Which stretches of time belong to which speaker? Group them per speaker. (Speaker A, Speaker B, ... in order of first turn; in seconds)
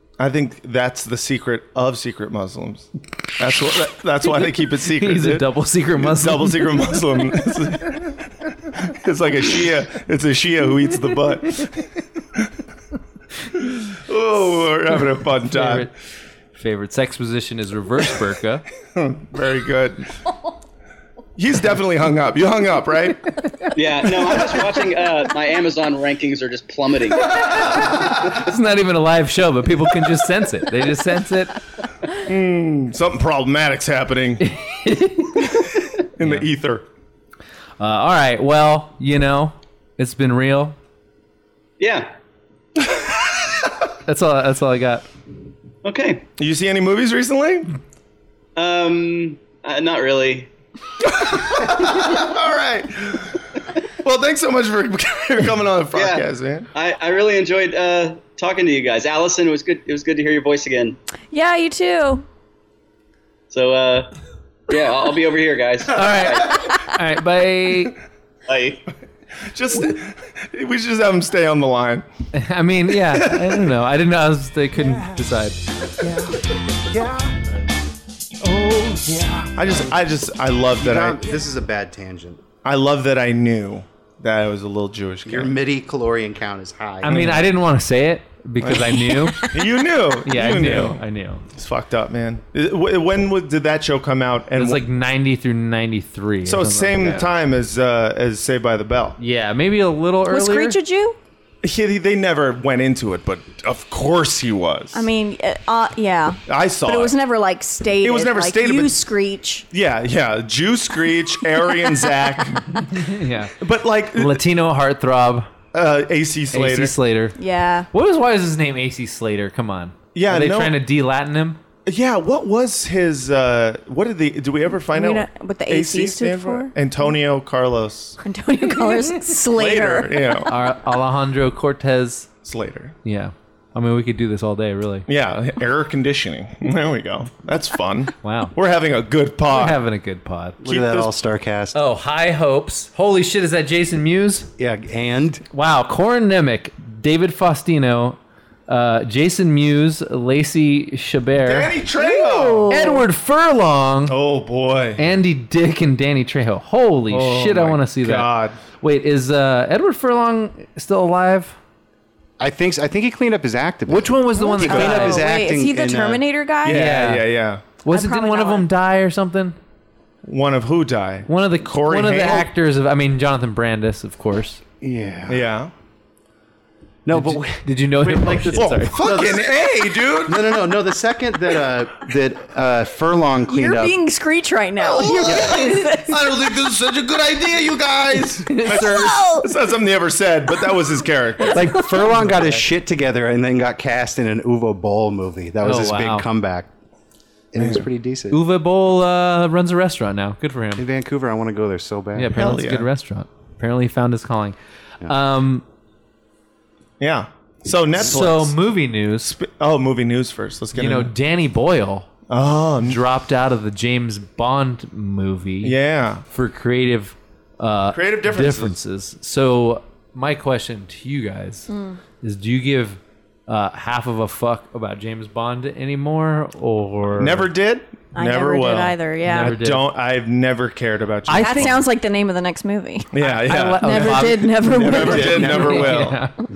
Speaker A: 0.2-12.5, 13.5-15.9, 18.9-20.1, 21.4-23.3, 24.2-24.5, 32.2-34.5, 36.1-36.8, 43.0-43.5, 46.4-47.7, 51.0-53.4, 54.0-56.7, 69.5-72.0, 72.9-73.7, 78.4-81.2, 82.6-85.5, 87.1-87.5, 88.6-91.0, 91.5-94.8, 96.4-99.2, 101.6-105.1, 106.5-107.1, 108.0-109.0, 109.7-113.0, 113.6-114.4, 115.7-116.9, 120.1-120.8, 121.8-128.2, 129.5-130.5, 132.4-132.9, 135.1-139.8, 140.6-141.1, 151.4-152.8, 154.1-155.0, 157.1-158.6, 166.6-167.6, 170.2-172.5, 175.3-175.7, 178.5-180.6, 184.8-191.8, 197.6-197.9, 202.3-202.9, 207.0-208.6, 209.2-211.1, 212.3-213.0, 215.6-216.2, 217.9-218.8, 227.2-231.8, 233.1-236.2
Speaker B: 4.9-7.0, 15.5-15.9, 16.5-18.6, 27.6-31.6, 34.4-35.7, 36.2-36.5, 37.8-40.8, 44.0-45.0, 65.9-68.0, 72.3-75.6, 87.0-89.5, 90.2-91.4, 94.5-97.3, 99.2-100.8, 112.8-113.5, 114.1-115.5, 116.5-117.4, 117.9-121.6, 130.5-132.3, 133.0-135.1, 138.2-138.5, 139.5-140.6, 141.7-144.5, 145.5-151.7, 152.7-154.2, 155.0-161.6, 163.9-165.2, 166.7-167.2, 167.8-169.6, 171.3-174.6, 177.1-179.0, 188.5-189.0, 192.1-192.6, 195.6-196.3, 198.3-200.8, 202.2-205.6, 208.0-209.3, 210.7-212.1, 212.8-215.8, 216.3-221.7, 222.2-227.5, 229.2-229.9, 231.3-231.7, 233.2-236.4
Speaker C: 23.7-27.7, 41.8-42.1, 45.8-46.2, 48.5-50.5, 55.9-61.0, 63.5-64.1, 64.7-66.6, 68.5-68.8
Speaker D: 61.3-62.2, 100.3-101.2, 104.9-109.6, 117.4-117.9, 124.9-126.7, 128.2-130.4, 152.0-153.0, 164.4-166.9, 167.9-168.7, 183.5-186.2, 188.6-189.5, 221.7-222.0, 228.1-229.6, 231.3-233.1, 233.8-235.8
Speaker E: 76.0-76.3, 76.9-77.4, 79.3-79.8, 80.8-82.4, 85.2-87.2, 140.6-141.8, 144.6-145.4, 162.4-166.2, 174.8-175.4, 177.1-179.5, 180.1-183.9, 191.5-196.7, 197.5-198.4, 200.8-202.4, 235.0-236.1